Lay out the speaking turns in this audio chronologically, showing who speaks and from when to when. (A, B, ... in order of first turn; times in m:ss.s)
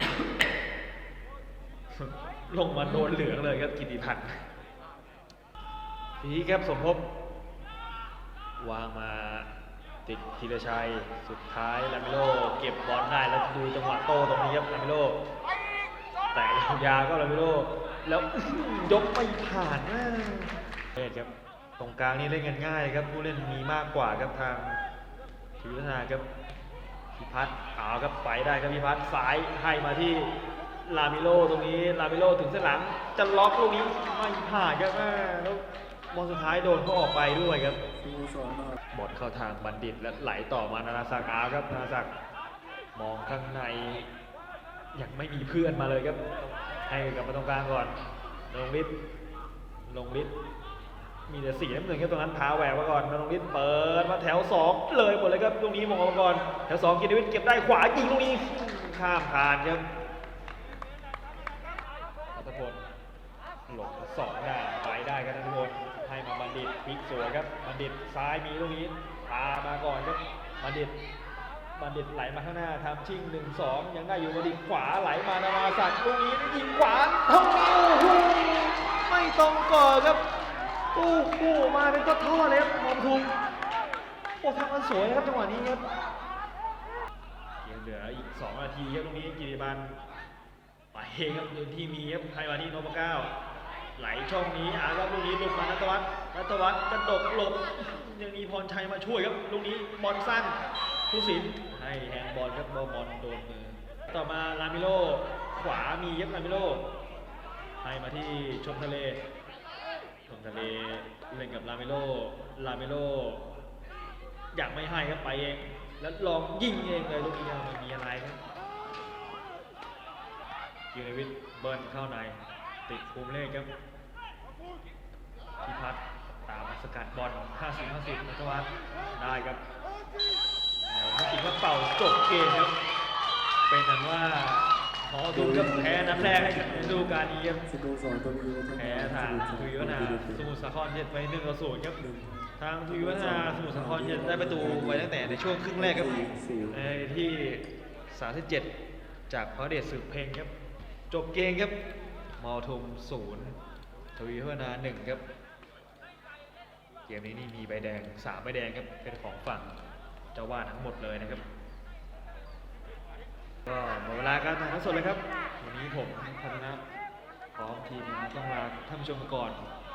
0:01.9-0:04.4 A
0:06.2-0:07.0 A
0:08.6-0:09.5 A
0:10.0-0:15.2 A
0:16.3-0:24.8 A
0:25.6-0:26.2 A
0:27.1-0:30.3 A
0:30.8-0:37.8 A
0:38.0-0:38.8 B
0:38.9-0:42.1 A
0:43.0-0:44.1 A
0:44.9-0:48.0 A
0:48.5-0:48.9 A
0:49.9-0:50.3 A
0:51.3-0:59.8 A
1:02.3-1:02.8 A
1:03.7-1:11.0 A
1:11.7-1:20.2 A
1:20.9-1:23.4 A
1:24.4-1:25.8 A
1:27.6-1:30.0 A
1:30.9-1:33.3 A
1:34.0-1:40.6 A
1:41.1-1:46.8 A
1:47.8-1:49.2 A
1:50.3-1:53.5 A
1:54.5-1:58.4 A
2:00.9-2:03.7 A
2:05.6-2:09.6 A
2:10.9-2:12.7 A
2:13.7-2:17.6 A
2:15.3-2:20.5 B
2:18.8-2:22.0 A
2:22.0-2:26.9 B
2:22.6-2:28.7 A
2:29.3-2:30.5 A
2:31.1-2:31.7 A
2:32.4-2:33.6 A
2:34.2-2:35.2 A
2:37.1-2:39.8 A
2:40.3-2:41.4 A
2:43.7-2:46.8 A
2:47.6-2:49.6 A